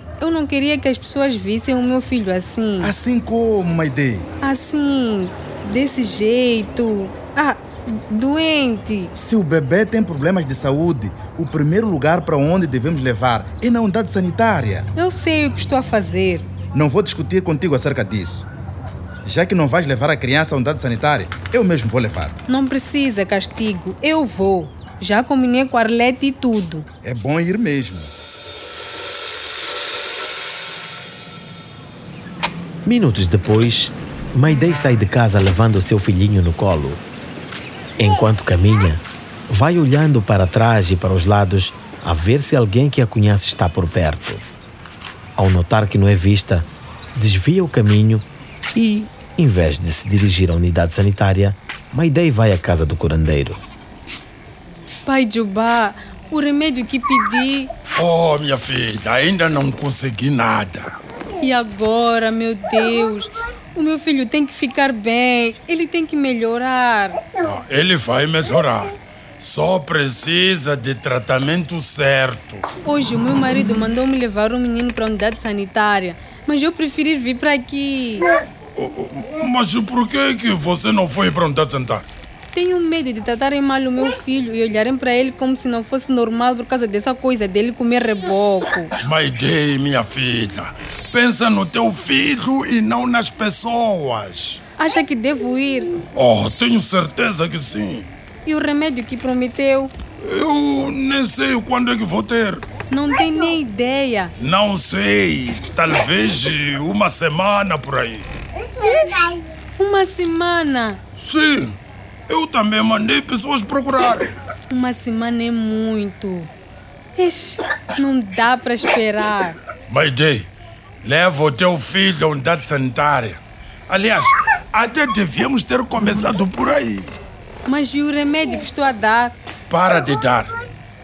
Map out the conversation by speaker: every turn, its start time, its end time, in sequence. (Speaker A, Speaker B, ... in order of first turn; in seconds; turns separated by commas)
Speaker A: 0.2-2.9, Speaker B: 2.8-4.3, Speaker A: 4.4-9.1, Speaker B: 9.1-14.9, Speaker A: 14.9-16.4, Speaker B: 16.7-18.5, Speaker B: 19.2-22.4, Speaker A: 22.5-26.8, Speaker B: 27.0-28.1, Speaker C: 32.8-37.0, Speaker C: 38.0-44.4, Speaker C: 45.4-53.6, Speaker A: 55.0-57.7, Speaker D: 57.9-61.0, Speaker A: 61.4-67.2, Speaker D: 67.4-72.7, Speaker A: 72.8-78.3, Speaker D: 78.8-82.0, Speaker A: 82.5-88.9, Speaker D: 89.0-94.6, Speaker A: 94.8-95.9, Speaker D: 96.1-98.1, Speaker A: 98.4-99.9, Speaker D: 100.2-102.7, Speaker A: 102.9-104.3, Speaker D: 104.4-108.3, Speaker A: 108.8-109.2, Speaker A: 109.8-111.0, Speaker D: 111.2-111.8, Speaker D: 112.3-114.3, Speaker A: 114.7-116.5, Speaker A: 117.1-119.6, Speaker D: 119.9-120.5, Speaker D: 121.0-127.1, Speaker A: 127.7-129.4, Speaker D: 129.7-130.6